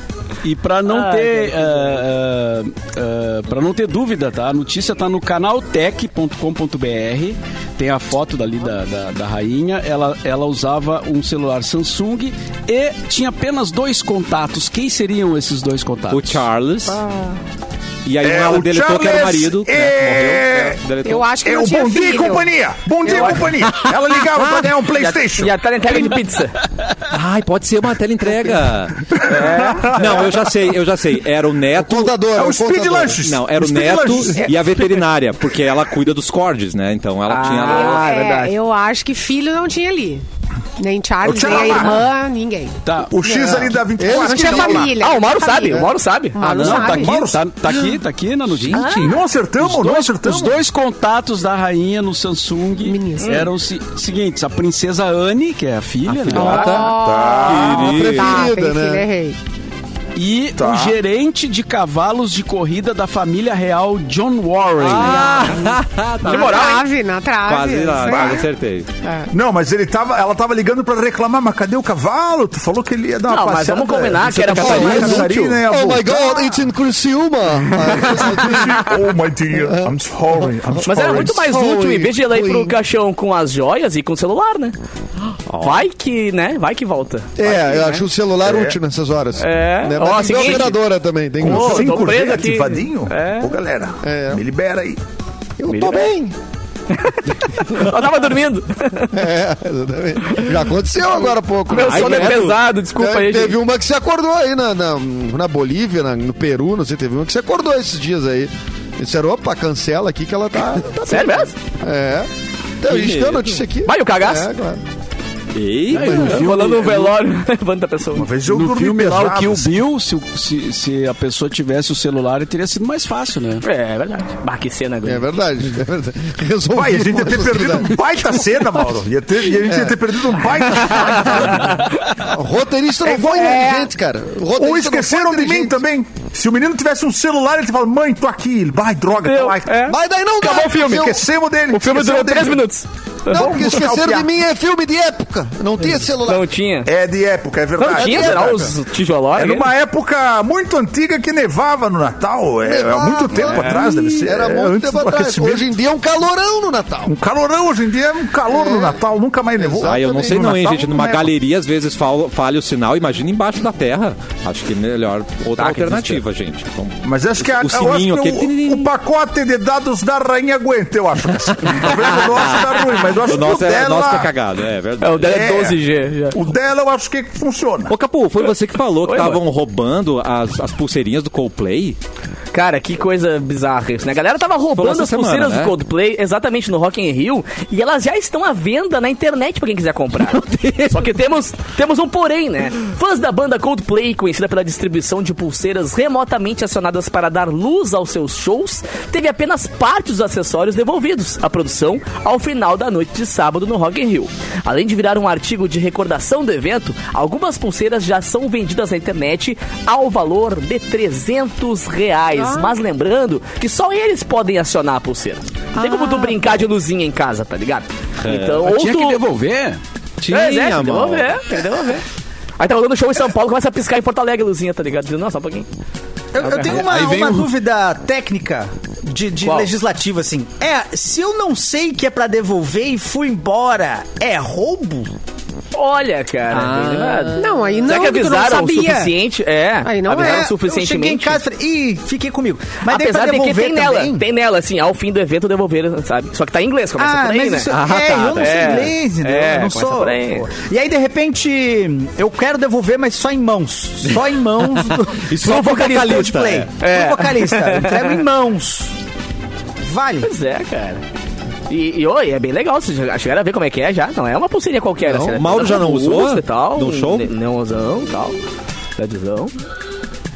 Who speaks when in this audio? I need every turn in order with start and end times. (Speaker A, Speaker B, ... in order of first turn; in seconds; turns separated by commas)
Speaker A: 0.4-16.4, Speaker B: 0.9-1.7, Speaker C: 16.1-17.0, Speaker C: 18.0-21.3, Speaker D: 18.2-20.8, Speaker E: 21.0-22.5, Speaker D: 21.4-25.6, Speaker B: 23.1-23.4, Speaker E: 23.1-23.4, Speaker C: 23.9-24.7, Speaker B: 24.9-26.6, Speaker C: 27.1-32.2, Speaker B: 29.2-30.2, Speaker D: 29.4-30.2, Speaker F: 31.7-33.2, Speaker D: 32.3-34.5, Speaker C: 33.2-38.1, Speaker B: 37.3-38.6, Speaker E: 37.6-40.2, Speaker E: 40.8-42.8, Speaker D: 41.2-42.0, Speaker A: 42.8-43.1, Speaker D: 43.1-45.0, Speaker E: 43.5-47.3, Speaker F: 44.0-44.8, Speaker B: 44.9-46.4, Speaker A: 46.4-56.8, Speaker C: 46.5-46.8, Speaker D: 46.8-47.4, Speaker C: 47.6-49.1, Speaker B: 48.7-49.1, Speaker D: 49.0-50.6, Speaker E: 52.8-53.5, Speaker B: 53.2-53.5, Speaker C: 56.0-58.4, Speaker E: 56.3-59.4, Speaker D: 56.9-57.9, Speaker F: 57.6-59.0, Speaker A: 60.1-65.2, Speaker D: 60.6-61.0, Speaker C: 64.8-66.8, Speaker B: 64.9-65.6, Speaker B: 66.2-66.8, Speaker E: 66.2-68.5, Speaker C: 67.5-68.9, Speaker D: 68.1-68.5, Speaker E: 69.0-69.3, Speaker D: 69.3-76.5, Speaker B: 73.3-75.6, Speaker F: 74.5-78.9, Speaker D: 77.8-81.4, Speaker F: 79.6-82.8, Speaker B: 80.8-84.7, Speaker C: 85.5-85.8, Speaker B: 85.6-88.0, Speaker F: 87.4-92.1, Speaker D: 88.4-88.8, Speaker B: 89.4-90.8, Speaker D: 91.4-95.0, Speaker B: 91.4-93.5, Speaker F: 94.0-94.4, Speaker F: 95.6-96.3, Speaker B: 95.7-96.1, Speaker B: 96.9-99.2, Speaker F: 99.1-114.8, Speaker B: 101.7-103.6, Speaker C: 101.8-102.6, Speaker B: 111.0-111.5, Speaker C: 112.9-113.6, Speaker B: 113.8-114.5, Speaker C: 115.5-116.5, Speaker A: 115.9-117.2, Speaker B: 116.0-118.3, Speaker D: 118.1-119.8, Speaker A: 118.4-123.6, Speaker B: 123.6-125.3, Speaker F: 125.0-128.4, Speaker D: 126.7-131.4, Speaker F: 129.7-130.0, Speaker F: 130.9-131.1, Speaker B: 130.9-131.9, Speaker F: 132.2-135.8, Speaker E: 133.1-133.9, Speaker D: 134.6-139.8, Speaker B: 139.2-141.2, Speaker F: 139.8-141.2, Speaker D: 140.8-142.6, Speaker B: 141.7-143.9, Speaker F: 143.3-146.5, Speaker G: 143.4-144.2, Speaker B: 146.2-146.9, Speaker D: 146.8-148.7, Speaker B: 147.8-149.7, Speaker F: 148.0-148.7, Speaker D: 149.3-155.7, Speaker F: 152.6-157.1, Speaker B: 153.4-153.8, Speaker D: 157.1-160.9, Speaker F: 158.5-159.0, Speaker F: 159.6-161.3, Speaker C: 159.8-168.9, Speaker B: 165.6-166.2, Speaker D: 167.0-174.3, Speaker C: 171.6-175.4, Speaker B: 175.0-176.4, Speaker D: 175.2-175.8, Speaker D: 176.3-177.9, Speaker C: 177.9-182.0, Speaker B: 179.0-179.4, Speaker B: 182.5-219.2, Speaker C: 184.7-185.7, Speaker C: 190.2-191.1, Speaker E: 212.3-212.7, Speaker E: 215.8-216.5, Speaker C: 218.2-218.6, Speaker A: 218.6-219.8, Speaker C: 220.2-221.4, Speaker B: 220.3-222.0, Speaker B: 222.6-225.7, Speaker G: 226.3-235.1, Speaker B: 226.4-226.8, Speaker A: 226.6-227.5, Speaker B: 229.4-229.7, Speaker B: 235.7-241.4, Speaker C: 236.5-237.6, Speaker E: 237.4-239.1, Speaker E: 239.8-240.4, Speaker G: 240.1-244.2, Speaker B: 242.8-250.5, Speaker G: 247.0-258.9, Speaker C: 247.7-248.9, Speaker C: 255.1-256.7, Speaker B: 255.4-258.2, Speaker G: 259.8-260.3, Speaker B: 260.2-261.0, Speaker B: 261.7-268.4, Speaker F: 265.0-265.4, Speaker C: 265.3-267.3, Speaker B: 269.0-269.5